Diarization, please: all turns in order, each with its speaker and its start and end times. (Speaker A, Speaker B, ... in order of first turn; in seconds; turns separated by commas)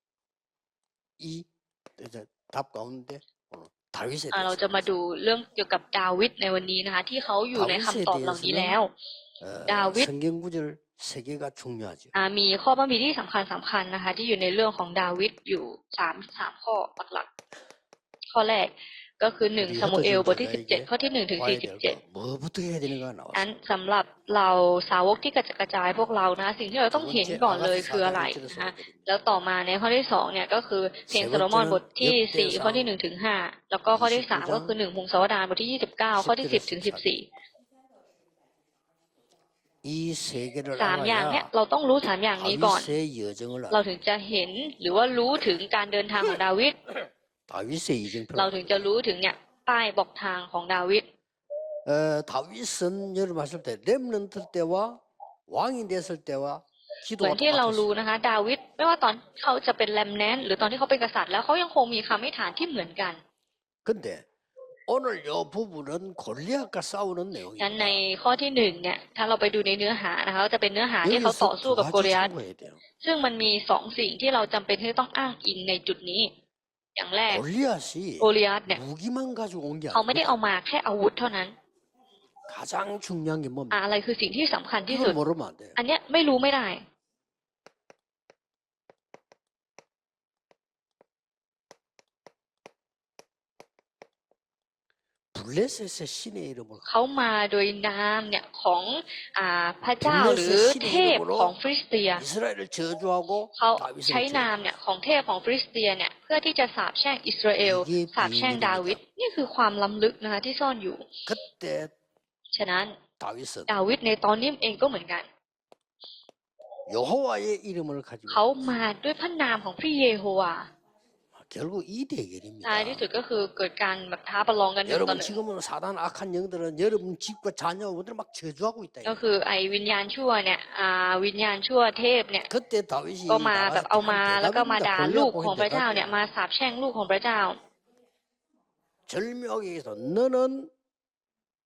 Speaker A: 1.2-1.4, Speaker A: 2.0-4.9, Speaker B: 4.3-8.9, Speaker A: 7.5-8.8, Speaker A: 9.4-12.1, Speaker B: 9.7-10.1, Speaker B: 12.1-17.3, Speaker B: 18.3-22.0, Speaker A: 19.6-23.5, Speaker B: 23.3-37.3, Speaker A: 26.9-29.1, Speaker A: 31.1-32.9, Speaker A: 33.9-34.8, Speaker A: 36.1-37.1, Speaker A: 39.8-41.5, Speaker B: 40.7-43.0, Speaker A: 42.4-43.8, Speaker B: 43.7-46.8, Speaker A: 47.5-48.9, Speaker B: 48.3-51.0, Speaker A: 51.9-57.9, Speaker B: 57.2-63.2, Speaker A: 63.8-64.2, Speaker A: 64.9-68.0, Speaker B: 67.6-72.3, Speaker A: 71.0-72.8, Speaker B: 73.0-76.3, Speaker B: 76.9-77.4, Speaker A: 77.3-80.3, Speaker B: 78.2-78.8, Speaker B: 79.9-81.5, Speaker A: 82.5-83.9, Speaker B: 83.7-85.2, Speaker A: 84.9-85.8, Speaker B: 85.8-86.8, Speaker A: 95.3-96.9, Speaker B: 96.8-102.2, Speaker A: 100.0-101.5, Speaker A: 102.2-104.5, Speaker B: 103.5-111.1, Speaker A: 107.6-109.0, Speaker A: 111.2-111.9, Speaker B: 112.5-113.0, Speaker A: 113.2-113.7, Speaker B: 113.7-115.3, Speaker A: 116.9-118.5, Speaker B: 118.3-120.7, Speaker A: 121.3-123.1, Speaker B: 122.6-125.3, Speaker A: 124.8-129.2, Speaker B: 129.0-132.5, Speaker A: 132.5-136.2, Speaker B: 133.3-137.6, Speaker A: 139.1-140.7